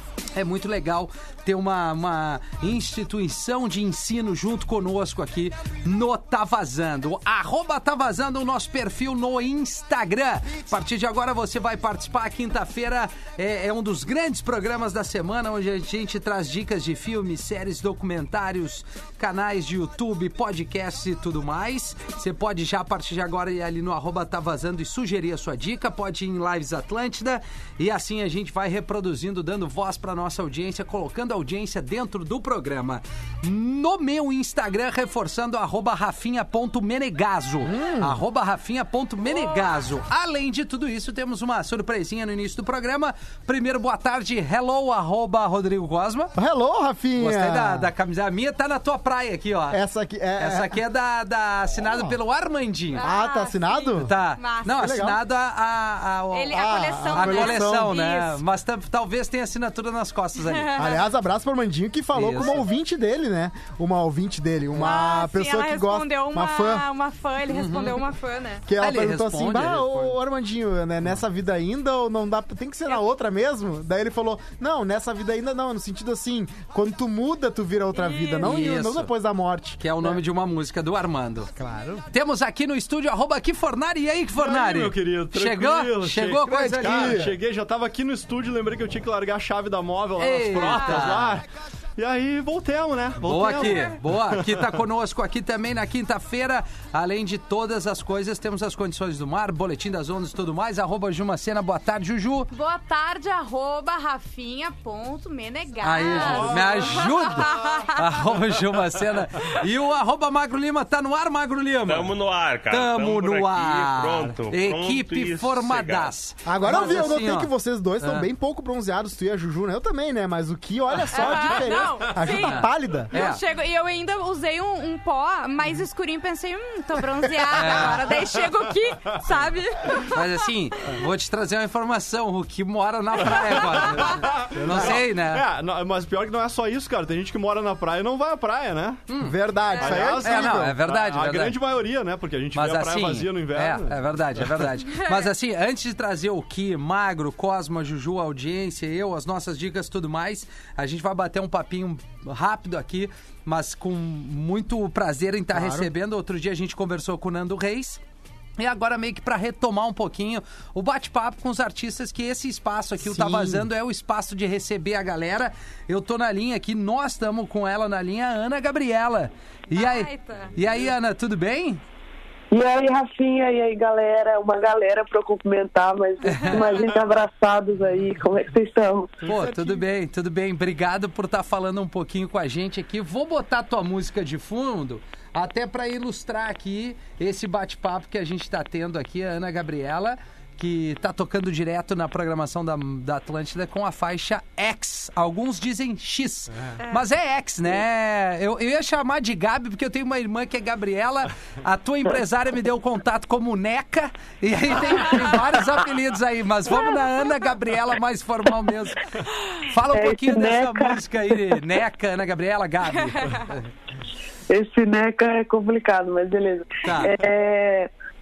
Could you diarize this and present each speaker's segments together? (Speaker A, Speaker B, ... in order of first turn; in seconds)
Speaker A: 0.3-46.3, 47.2-49.8, 50.4-53.0, 54.0-60.7, 62.1-62.6, 67.5-68.0, 68.8-70.1, 78.4-79.1, 79.8-81.5, 82.1-87.2, 90.2-91.4, 93.2-102.5, 105.8-112.1, 112.7-118.3, 122.4-123.4, 127.5-128.0, 130.1-135.4, 139.1-139.3, 140.2-141.6, 142.5-158.0, 158.6-171.8, 176.2-176.7, 179.2-209.1, 209.7-213.6, 216.8-217.2
Speaker B: 37.6-38.2, 46.3-47.9, 49.7-50.8, 51.8-52.1, 53.0-54.1, 54.6-55.2, 56.5-57.9, 60.8-66.9, 68.7-79.8, 81.5-82.1, 86.5-87.3, 116.4-123.1, 139.2-140.8, 155.5-155.9, 163.0-163.7, 179.3-179.8
Speaker C: 39.5-39.8, 52.9-54.9, 56.3-58.4, 60.4-61.0, 64.8-68.6, 77.9-78.5, 102.5-108.1, 121.1-130.3, 133.9-134.3, 139.7-140.1, 144.9-145.3, 169.7-170.5, 204.9-205.3, 206.7-207.3, 213.0-213.5
Speaker D: 84.3-91.5, 92.0-94.8, 106.0-107.5, 133.8-139.0, 139.8-144.5
Speaker E: 111.9-116.1
Speaker F: 172.5-179.2, 209.9-211.4, 214.5-217.9